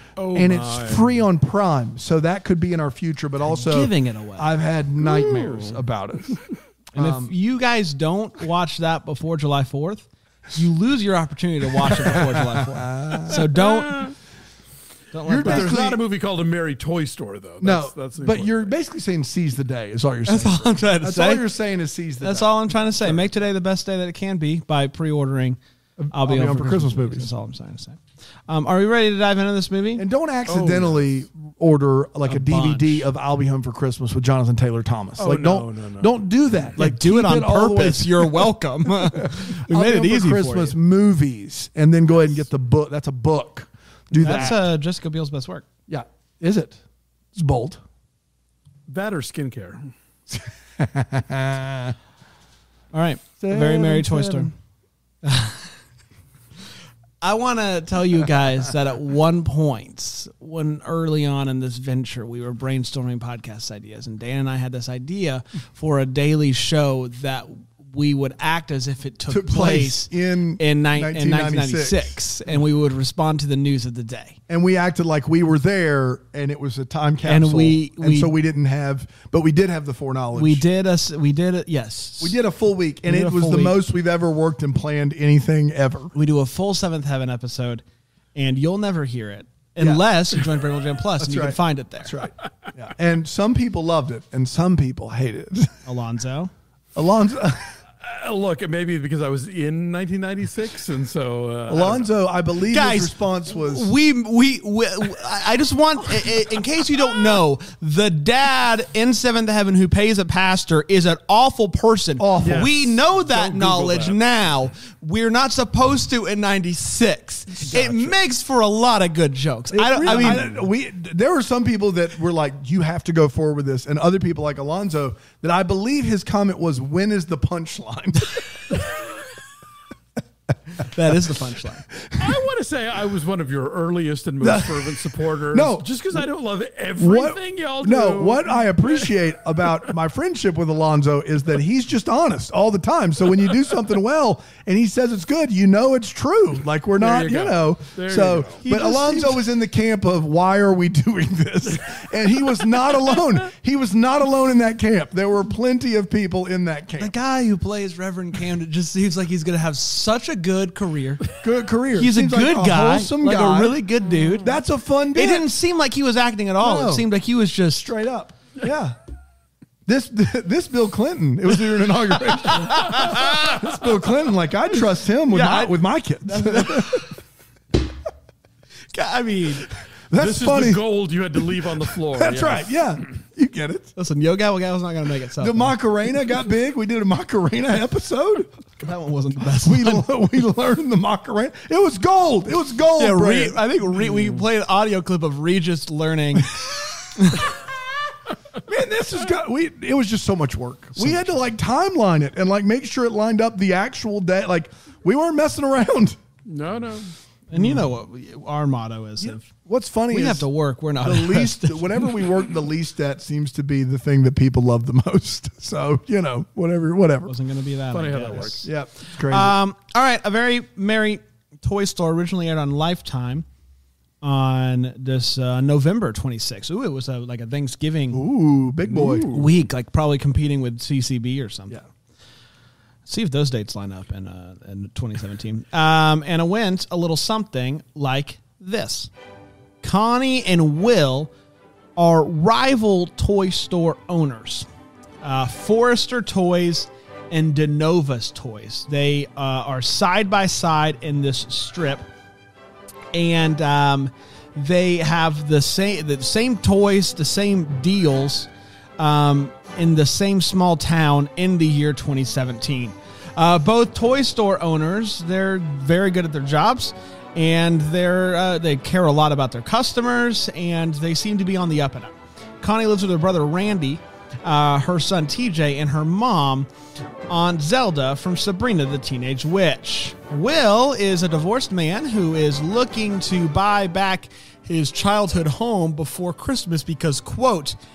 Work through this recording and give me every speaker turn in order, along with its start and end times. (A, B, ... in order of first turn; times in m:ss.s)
0:00.2-0:01.2 A
0:00.3-0:06.4 B
0:03.4-0:04.5 C
0:05.0-0:05.8 A
0:06.9-0:07.3 B
0:06.9-0:14.1 C
0:11.9-0:13.4 B
0:13.3-0:14.1 A
0:15.1-0:15.8 C
0:15.3-0:16.0 B
0:15.4-0:18.7 A
0:17.6-0:23.3 B
0:20.3-0:21.4 C
0:22.2-0:25.6 C
0:26.0-0:27.3 B
0:26.1-0:30.1 C
0:30.0-0:44.6 B
0:30.5-0:31.1 A
0:32.2-0:33.1 C
0:35.2-0:36.2 A
0:36.8-0:40.8 C
0:44.2-0:45.6 C
0:44.2-0:44.5 A
0:45.9-0:46.8 B
0:47.3-0:47.8 B
0:48.9-0:49.9 A
0:50.3-0:51.9 B
0:52.9-0:54.5 C
0:53.4-0:54.5 B
0:55.2-0:55.7 C
0:57.2-1:14.4 C
1:09.3-1:12.2 B
1:14.5-1:20.6 B
1:17.2-1:18.3 C
1:20.3-1:22.4 C
1:22.2-1:26.1 B
1:23.0-1:23.8 C
1:26.1-1:27.8 C
1:28.3-1:32.2 C
1:31.2-1:35.9 B
1:35.8-1:36.5 C
1:36.9-1:37.8 B
1:38.0-1:42.1 A
1:41.7-1:43.9 B
1:42.7-2:00.4 C
1:52.2-1:52.8 B
1:52.4-1:54.2 A
1:57.6-1:58.2 A
1:59.7-2:08.6 B
2:00.0-2:00.6 A
2:10.8-2:11.9 C
2:11.9-2:12.4 B
2:12.2-2:19.9 A
2:14.4-2:16.2 B
2:17.0-2:37.1 B
2:27.0-2:28.6 A
2:28.6-2:29.4 C
2:37.0-2:41.3 C
2:41.4-2:43.8 B
2:42.0-2:44.5 C
2:44.3-2:45.5 B
2:45.2-2:47.9 C
2:46.6-2:47.1 B
2:47.8-2:49.0 B
2:49.8-2:57.0 B
2:52.5-2:53.6 C
2:52.6-2:53.6 A
2:55.3-2:57.2 C
2:58.9-2:59.7 C
3:00.1-3:00.8 B
3:00.2-3:02.9 A
3:01.4-3:03.9 B
3:04.0-3:05.7 C
3:05.4-3:08.6 B
3:08.8-3:10.1 C
3:09.6-3:13.6 B
3:13.0-3:16.5 C
3:16.5-3:17.2 B
3:17.2-3:17.5 C
3:18.6-3:26.2 B
3:21.0-3:21.3 C
3:26.5-3:27.1 A
3:27.5-3:29.5 C
3:27.6-3:27.8 B
3:29.2-3:30.5 B
3:30.1-3:32.2 C
3:31.0-3:37.3 B
3:37.2-3:43.4 C
3:37.9-3:38.6 A
3:38.6-3:39.6 B
3:44.2-3:48.2 C
3:48.1-3:49.3 B
3:48.8-3:49.5 A
3:49.3-3:51.8 C
3:53.1-3:59.1 C
3:59.8-4:01.3 C
4:02.0-4:04.7 C
4:05.2-4:12.1 C
4:13.1-4:36.7 C
4:37.3-4:47.8 C